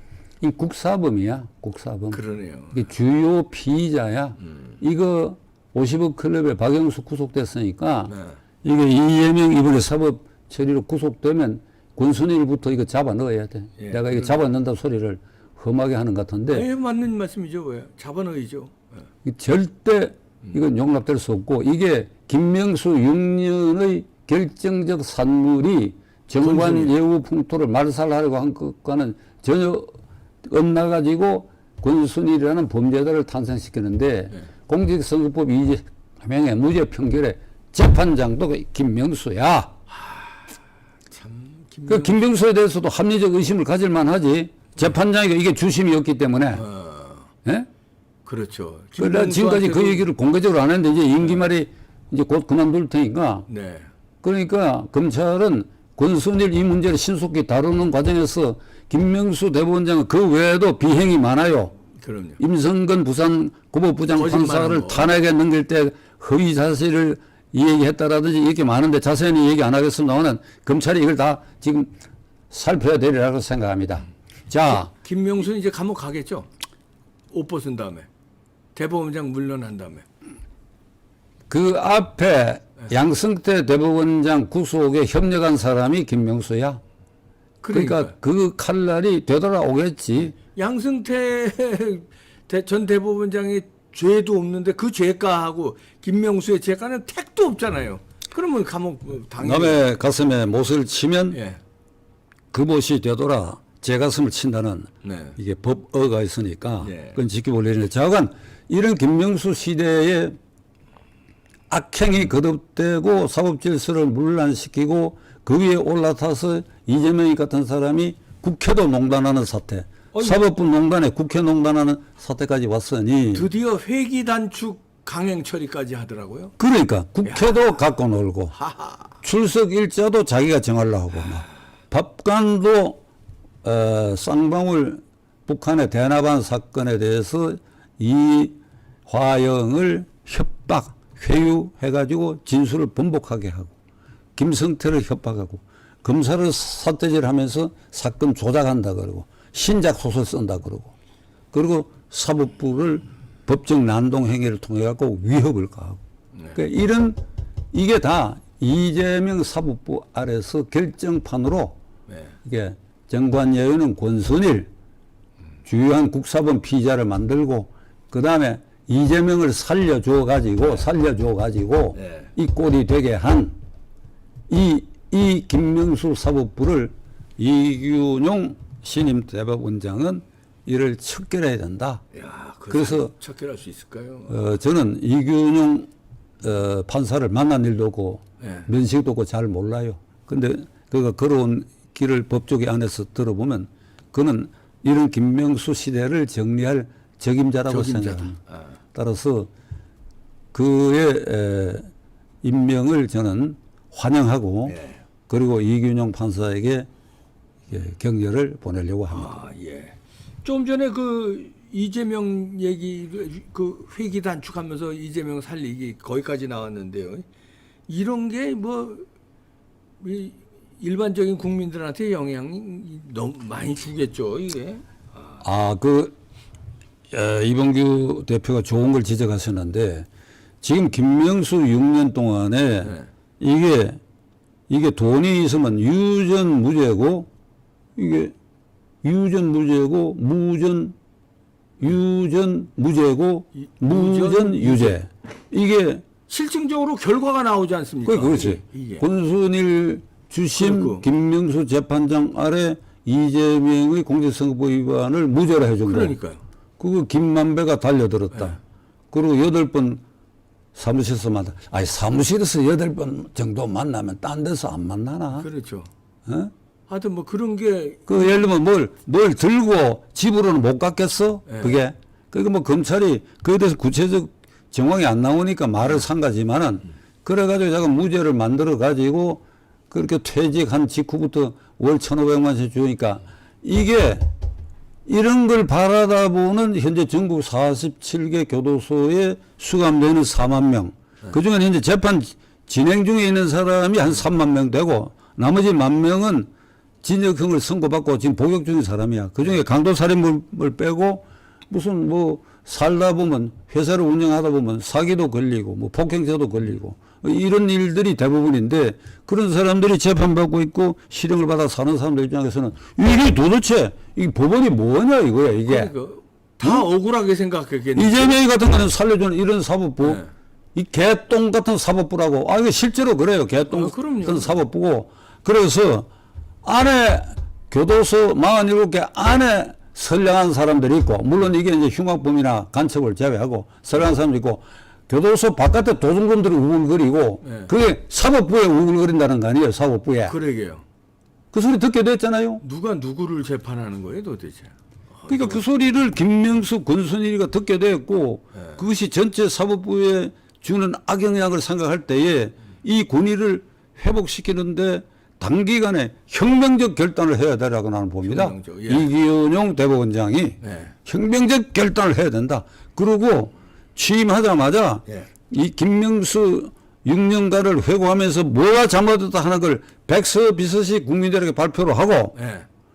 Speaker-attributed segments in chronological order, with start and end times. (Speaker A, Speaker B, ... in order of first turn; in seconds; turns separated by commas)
Speaker A: 0.4-2.2, Speaker B: 2.1-2.8, Speaker A: 2.7-8.1, Speaker B: 8.1-8.4, Speaker A: 8.6-16.7, Speaker B: 13.8-14.3, Speaker B: 16.5-18.9, Speaker A: 19.2-39.8, Speaker B: 26.4-26.9, Speaker B: 39.9-40.4, Speaker B: 41.1-42.2, Speaker A: 41.9-46.6, Speaker B: 46.5-47.3, Speaker B: 48.2-50.1, Speaker A: 49.0-53.5, Speaker B: 53.5-53.9, Speaker A: 54.2-61.8, Speaker B: 62.0-62.4, Speaker A: 62.4-71.9, Speaker B: 64.1-65.1, Speaker A: 72.5-74.9, Speaker B: 75.0-76.5, Speaker B: 77.3-78.1, Speaker B: 78.7-80.0, Speaker A: 81.5-86.8, Speaker B: 87.6-88.1, Speaker A: 87.7-90.4, Speaker B: 90.5-99.8, Speaker A: 99.4-101.4, Speaker B: 101.3-101.6, Speaker A: 102.5-110.3, Speaker B: 105.0-105.4, Speaker B: 106.8-107.2, Speaker A: 111.7-123.5, Speaker B: 120.1-120.4, Speaker B: 123.3-126.5, Speaker A: 126.6-128.6, Speaker B: 128.7-129.0, Speaker A: 129.2-133.0, Speaker A: 133.6-143.7, Speaker A: 144.3-150.9, Speaker A: 151.5-156.0, Speaker A: 156.5-157.2, Speaker A: 157.7-161.8, Speaker B: 162.1-162.3, Speaker A: 162.4-164.7, Speaker A: 165.6-173.6, Speaker B: 171.9-172.3, Speaker A: 174.5-182.0, Speaker B: 182.1-184.4, Speaker A: 182.7-183.1, Speaker A: 184.3-185.9, Speaker A: 186.4-198.4, Speaker B: 188.4-188.7, Speaker B: 197.7-198.7, Speaker A: 198.9-199.5, Speaker A: 200.5-201.9, Speaker A: 202.4-204.8, Speaker B: 204.7-205.0, Speaker A: 205.3-206.9, Speaker A: 207.7-209.4, Speaker B: 209.1-217.2, Speaker B: 217.9-219.1, Speaker B: 220.0-224.8, Speaker A: 225.4-226.1, Speaker A: 227.1-230.1, Speaker A: 230.6-234.0, Speaker A: 234.7-237.3, Speaker A: 237.9-238.3, Speaker A: 239.0-240.9, Speaker A: 241.8-246.0, Speaker B: 243.6-245.0, Speaker B: 246.3-249.1, Speaker A: 248.1-256.1, Speaker B: 250.6-251.0, Speaker B: 255.8-256.4, Speaker A: 256.8-258.6, Speaker A: 259.1-260.0, Speaker A: 260.7-265.5, Speaker B: 265.4-265.9, Speaker A: 266.2-266.5, Speaker B: 266.9-268.4, Speaker A: 268.1-284.3, Speaker B: 271.5-271.7, Speaker A: 285.1-296.5, Speaker A: 297.0-315.9, Speaker B: 315.7-318.4, Speaker A: 317.9-320.2, Speaker A: 320.7-326.1, Speaker B: 323.7-324.6, Speaker A: 326.6-340.4, Speaker B: 337.4-337.7, Speaker B: 340.3-340.8, Speaker A: 341.5-342.6, Speaker B: 342.6-345.6, Speaker A: 345.3-372.4, Speaker B: 358.2-359.1, Speaker B: 360.6-360.9, Speaker B: 372.3-372.7